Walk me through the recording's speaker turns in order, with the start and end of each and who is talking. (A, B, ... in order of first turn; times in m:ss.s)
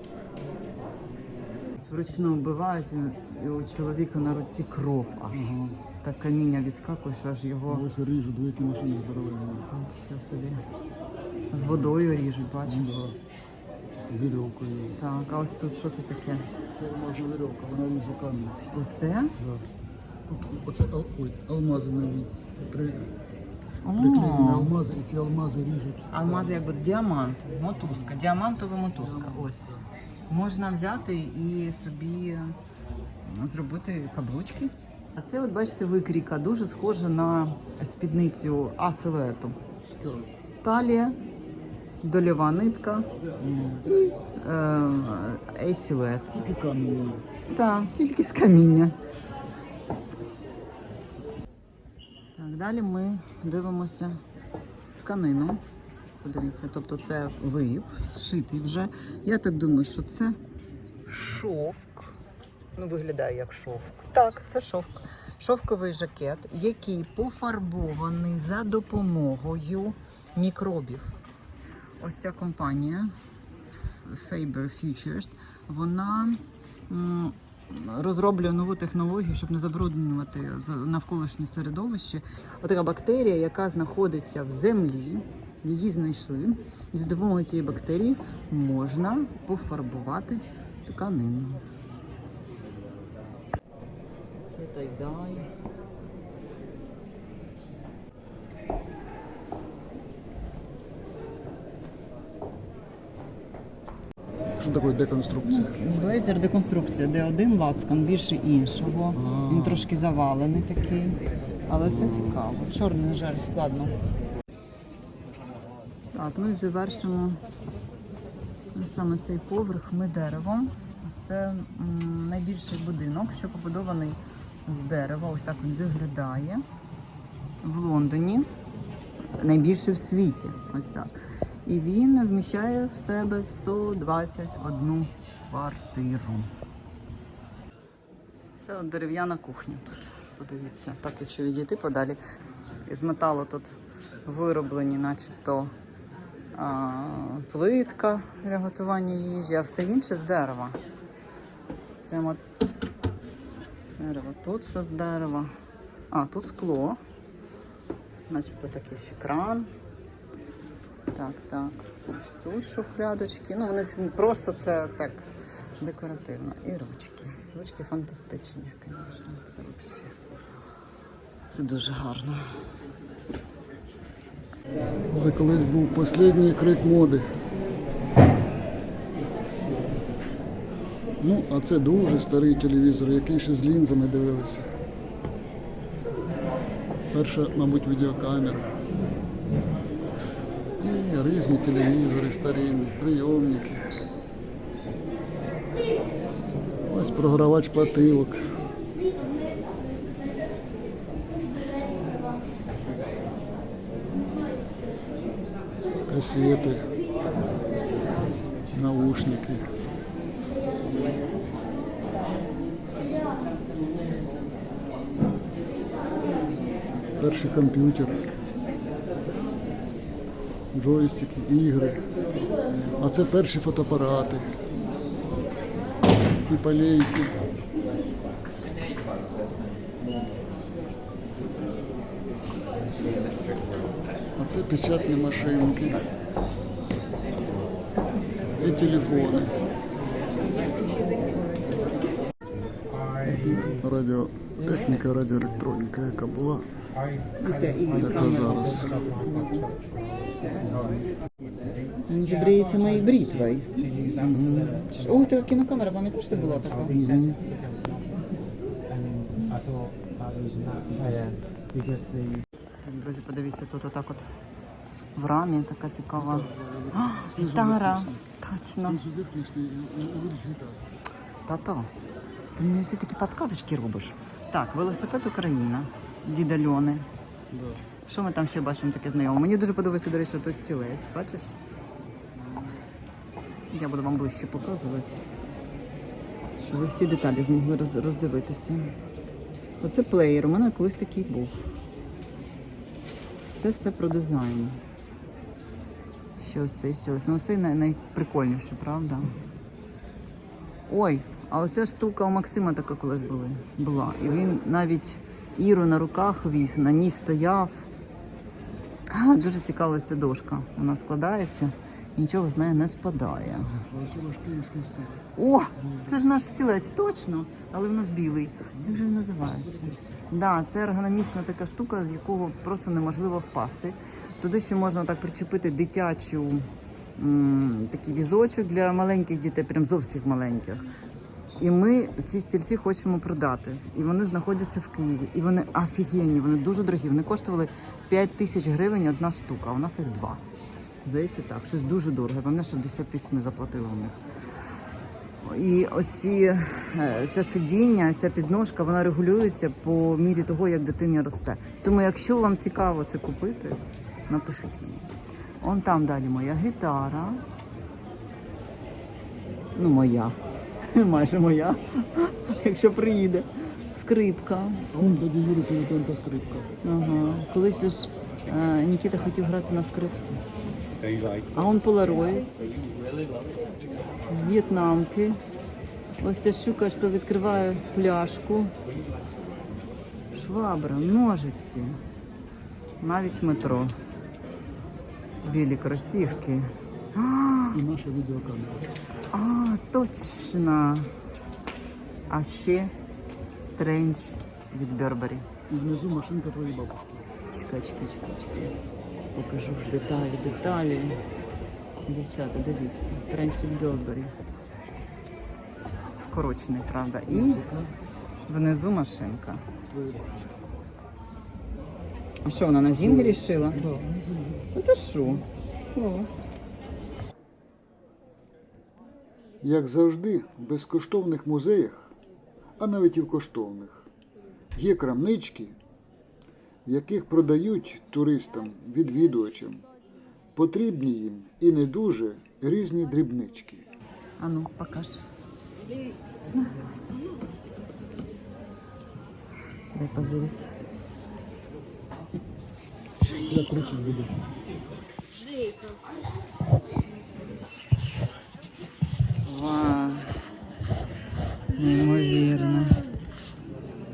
0:01.8-0:07.9 A
0:05.3-0:05.8 B
0:07.7-0:09.7 B
0:09.7-0:10.6 A
0:11.5-0:13.0 A
0:11.5-0:12.0 B
0:12.6-0:13.2 B
0:14.1-0:15.0 B
0:15.0-0:16.5 A
0:16.8-0:18.6 B
0:18.7-0:19.4 A
0:19.4-0:19.7 B
0:20.3-0:23.1 B
0:23.8-0:24.7 A
0:24.0-0:26.7 B
0:26.1-0:29.7 A
0:27.8-0:28.2 B
0:29.0-0:29.9 B
0:30.3-0:32.6 A
0:33.2-0:39.6 A
0:39.8-0:40.4 B
0:40.6-0:41.2 A
0:42.0-0:43.1 A
0:43.4-0:43.8 B
0:43.8-0:46.4 A
0:46.3-0:47.2 B
0:47.5-0:49.0 A
0:52.4-0:54.2 A
0:55.0-0:55.6 A
0:56.2-1:00.4 A
1:01.1-1:02.1 A
1:02.8-1:11.1 A
1:12.0-1:13.1 A
1:13.9-1:31.6 A
1:34.5-1:35.5 A
1:44.6-1:45.8 B
1:45.4-1:54.0 A
1:49.1-1:49.9 B
1:51.8-1:52.4 B
1:56.1-1:57.4 A
1:58.8-2:06.6 A
2:07.6-2:08.5 A
2:09.4-2:11.1 A
2:11.7-2:16.5 A
2:18.6-2:22.2 A
2:22.9-2:23.7 A
2:24.2-2:25.7 A
2:26.6-2:30.8 A
2:32.1-2:32.4 A
2:34.0-2:35.5 A
2:36.1-2:37.0 A
2:38.3-2:39.7 A
2:41.1-2:45.3 A
2:45.8-2:50.1 A
2:51.5-2:52.5 A
2:55.1-2:57.4 B
3:01.2-3:04.7 B
3:07.1-3:08.7 B
3:10.8-3:13.9 B
3:16.9-3:18.5 B
3:26.0-3:26.9 B
3:28.7-3:29.7 B
3:37.2-3:38.3 B
3:40.7-3:42.0 B
3:42.7-3:44.5 B
3:46.3-3:47.4 B
3:54.4-3:56.0 B
3:58.6-3:59.6 B
4:03.2-4:03.7 A
4:03.3-4:06.7 B
4:07.4-4:09.8 A
4:08.0-4:09.0 B
4:10.6-4:11.1 B
4:12.1-4:17.4 A
4:22.8-4:24.2 A
4:25.2-4:29.0 A
4:26.2-4:28.2 B
4:28.8-4:30.9 B
4:31.5-4:31.9 A
4:32.6-4:37.1 A
4:37.5-4:37.8 B
4:38.0-4:41.5 A
4:42.4-4:42.6 B
4:43.7-4:45.2 A
4:46.6-4:48.9 A
4:49.8-4:51.5 A
4:53.6-4:54.8 A
4:56.4-4:59.3 A
5:00.9-5:07.9 A
5:09.1-5:13.7 A
5:13.7-5:15.2 B
5:15.4-5:30.9 A
5:15.8-5:16.1 B
5:18.7-5:20.0 B
5:31.6-5:40.4 A
5:41.0-5:44.2 A
5:45.4-5:55.1 A
5:55.6-5:57.4 A
5:59.8-6:00.4 A
6:00.9-6:05.2 A
6:04.9-6:06.7 B
6:06.8-6:10.4 A
6:11.5-6:12.5 A
6:12.4-6:12.8 C
6:14.3-6:15.4 A
6:16.2-6:18.7 A
6:20.3-6:22.0 A
6:23.0-6:24.0 A
6:25.4-6:27.8 A
6:27.7-6:28.9 B
6:29.3-6:31.1 A
6:32.3-6:32.9 A
6:33.8-6:35.5 A
6:35.7-6:37.3 B
6:37.6-6:38.8 A
6:39.4-6:41.2 A
6:42.0-6:44.3 A
6:46.2-6:47.6 A
6:47.3-6:47.9 B
6:48.5-6:49.6 A
6:49.9-6:50.9 B
6:52.4-6:53.9 A
6:53.0-6:54.7 B
6:54.7-6:56.4 A
6:59.6-7:02.1 B
7:02.8-7:04.1 B
7:04.8-7:05.8 B
7:06.9-7:09.8 B
7:10.5-7:13.9 B
7:14.4-7:15.2 A
7:15.8-7:16.2 C
7:16.5-7:16.9 A
7:17.0-7:17.5 C
7:19.9-7:20.7 A
7:23.2-7:24.1 C
7:23.4-7:24.4 B
7:25.3-7:26.1 C
7:29.4-7:30.3 A
7:31.8-7:33.0 A
7:31.8-7:33.1 C